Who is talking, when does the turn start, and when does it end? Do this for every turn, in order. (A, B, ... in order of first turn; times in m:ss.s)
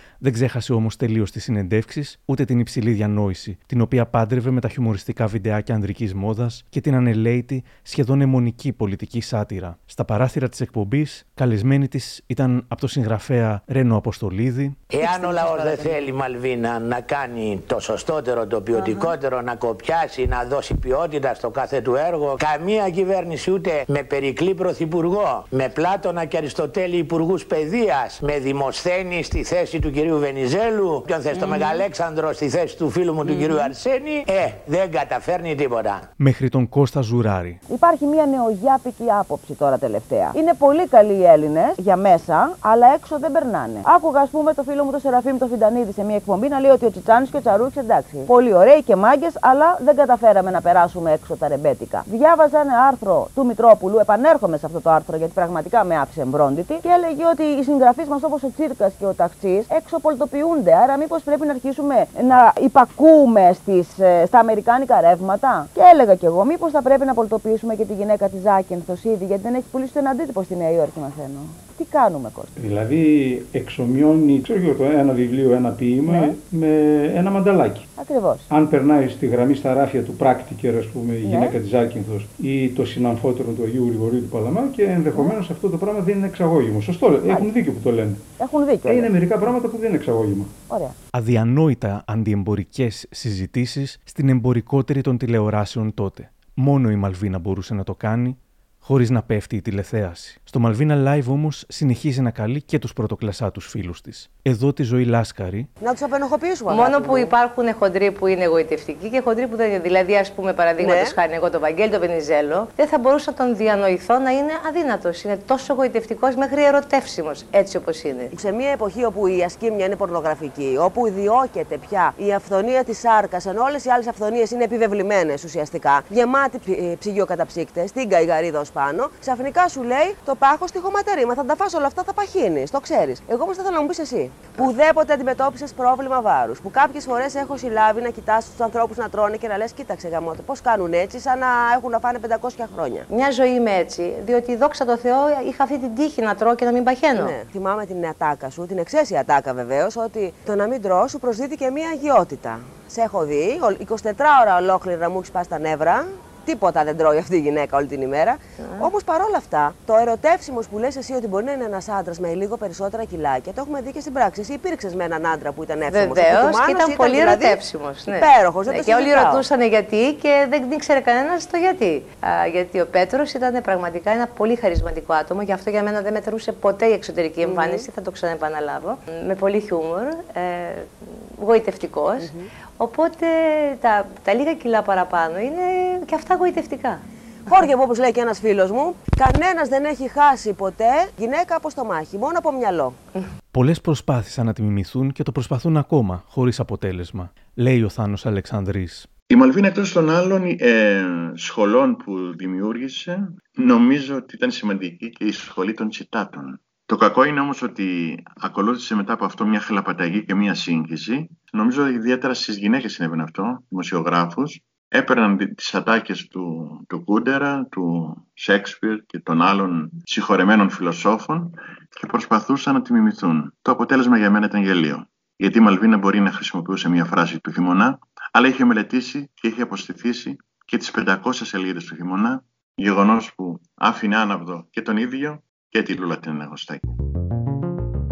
0:00.2-0:14.8 A
0:14.9-0:36.0 B
0:15.0-0:16.0 C
0:18.7-0:19.1 C
0:31.3-0:31.8 C
0:33.2-0:33.7 C
0:36.2-0:37.6 A
0:37.7-1:12.5 C
1:12.6-1:17.8 D
1:18.0-1:18.4 C
1:18.5-1:28.2 D
1:21.2-1:21.6 C
1:28.4-1:29.1 C
1:28.8-1:30.5 D
1:30.7-1:30.9 C
1:31.1-1:45.7 A
1:45.8-1:47.3 E
1:46.7-1:58.3 F
1:50.8-1:51.1 E
1:58.3-2:23.1 E
2:23.1-2:27.3 F
2:27.2-2:49.4 E
2:38.6-2:38.9 F
2:45.9-3:07.0 F
2:57.4-2:57.8 E
3:02.2-3:02.4 E
3:07.5-3:13.0 E
3:13.5-3:19.1 A
3:19.3-3:56.9 G